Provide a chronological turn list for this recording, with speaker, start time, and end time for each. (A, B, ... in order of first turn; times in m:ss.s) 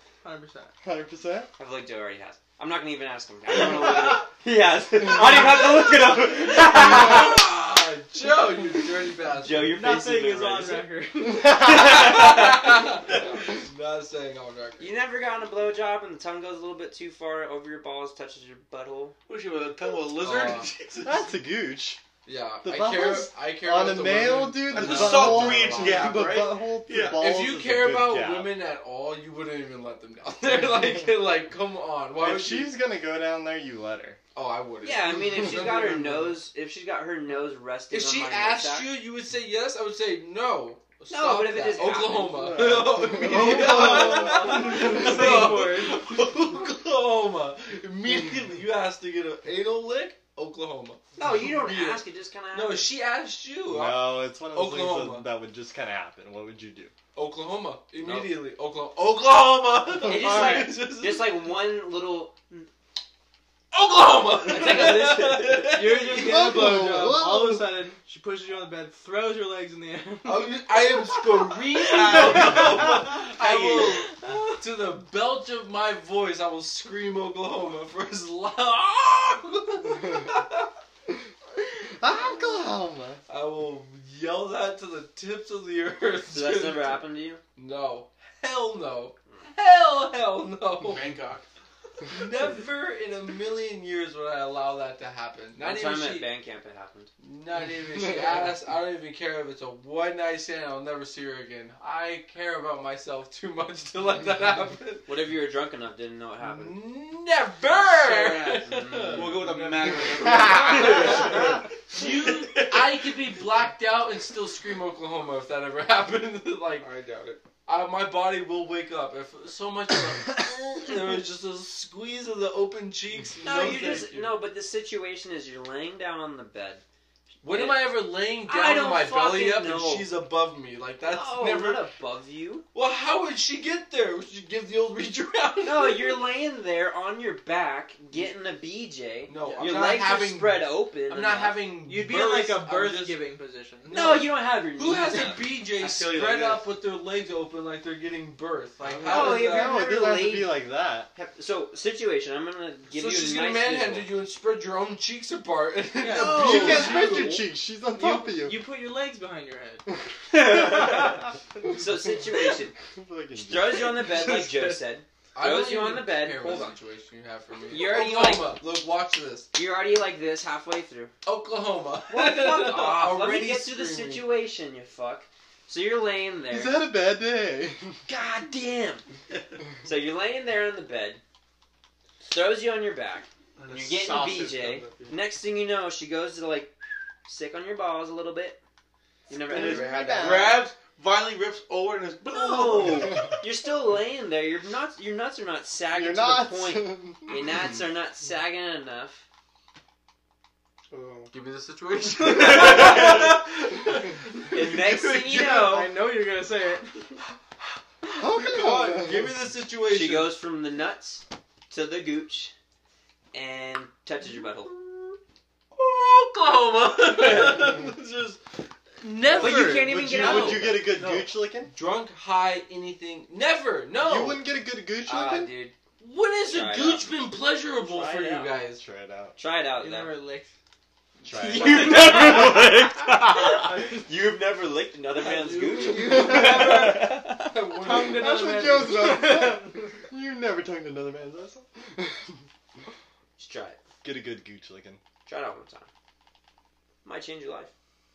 0:00.2-0:00.7 A
0:00.8-0:01.5 B
0:01.6-0:07.4 C
0:06.4-0:09.8 D
0:09.4-0:10.9 C
0:09.6-0:12.0 A
0:11.2-0:12.0 B
0:11.6-0:14.9 D
0:11.6-0:12.8 C
0:14.8-0:19.1 C
0:19.3-0:21.3 E
0:20.2-0:20.7 D
0:21.0-0:22.0 B
0:22.2-0:26.2 D
0:22.6-0:28.5 B
0:24.7-0:27.2 E
0:27.1-0:32.7 D
0:32.2-0:34.2 B
0:34.3-0:36.4 D
0:34.8-0:38.9 C
0:37.9-0:55.3 D
0:41.1-0:42.4 C
0:42.3-0:45.3 B
0:43.1-0:46.1 A
0:44.6-0:45.5 C
0:51.2-0:52.9 C
0:53.7-0:56.9 B
0:57.1-1:01.4 D
0:58.0-0:58.4 C
1:00.0-1:02.7 C
1:03.7-1:06.5 D
1:04.4-1:05.8 C
1:05.6-1:13.2 A
1:06.1-1:07.8 B
1:10.2-1:20.7 D
1:11.9-1:14.0 E
1:14.0-1:14.6 A
1:21.9-1:23.2 B
1:23.3-1:31.2 D
1:26.3-1:27.4 C
1:30.8-1:31.4 E
1:32.0-1:36.3 D
1:35.6-1:37.1 C
1:37.2-1:45.1 D
1:45.0-1:46.8 C
1:46.4-1:56.9 D
1:47.6-1:53.2 E
1:48.6-1:49.5 C
1:56.8-1:57.4 E
1:57.6-2:04.4 D
2:03.4-2:06.8 C
2:07.4-2:11.8 D
2:07.4-2:07.9 C
2:08.4-2:10.1 C
2:11.0-2:12.6 C
2:12.7-2:16.2 D
2:15.6-2:21.6 C
2:19.3-2:23.2 D
2:19.4-2:19.7 A
2:21.8-2:24.0 A
2:23.8-2:29.8 D
2:23.9-2:25.4 C
2:25.7-2:26.6 E
2:28.9-2:29.2 E
2:29.0-2:30.6 C
2:29.1-2:31.1 B
2:31.1-2:34.1 C
2:32.9-2:37.4 D
2:36.0-2:37.4 A
2:36.1-2:38.6 B
2:36.2-2:36.5 C
2:37.9-2:39.8 A
2:40.3-2:42.8 C
2:40.4-2:41.0 B
2:40.5-2:41.2 A
2:41.7-2:42.1 B
2:42.9-2:43.9 B
2:43.4-2:46.8 C
2:43.9-2:44.8 A
2:45.3-2:49.5 D
2:47.7-2:48.6 C
2:49.5-2:51.1 C
2:51.2-2:54.3 D
2:52.1-2:56.9 C
2:56.5-2:58.0 B
2:58.1-2:59.1 C
2:59.8-3:01.2 C
3:02.2-3:08.6 C
3:03.6-3:05.2 E
3:09.3-3:10.6 C
3:09.4-3:10.6 B
3:09.5-3:13.2 E
3:12.3-3:19.2 C
3:15.9-3:17.4 B
3:20.9-3:21.3 E
3:21.3-3:25.9 D
3:22.5-3:23.3 C
3:24.5-3:25.9 C
3:25.3-3:27.2 A
3:28.0-3:29.4 B
3:28.3-3:30.4 D
3:29.9-3:32.5 C
3:33.3-3:34.8 C
3:34.4-3:35.2 D
3:35.7-3:38.4 D
3:39.0-3:44.4 D
3:39.2-3:41.7 B
3:39.4-3:41.2 C
3:44.0-3:45.5 B
3:45.0-3:45.7 C
3:46.0-3:48.8 D
3:46.5-3:47.1 C
3:47.8-3:48.5 C
3:48.7-3:49.4 B
3:49.4-3:50.1 C
3:49.8-3:50.5 A
3:51.2-3:52.6 B
3:51.3-3:57.6 C
3:55.2-3:58.4 D
3:55.9-3:57.0 A
3:56.0-3:57.1 B
3:57.8-3:59.8 A
3:57.9-4:02.4 B
4:03.4-4:03.8 C
4:04.0-4:05.0 B
4:05.2-4:05.9 C
4:07.0-4:07.7 C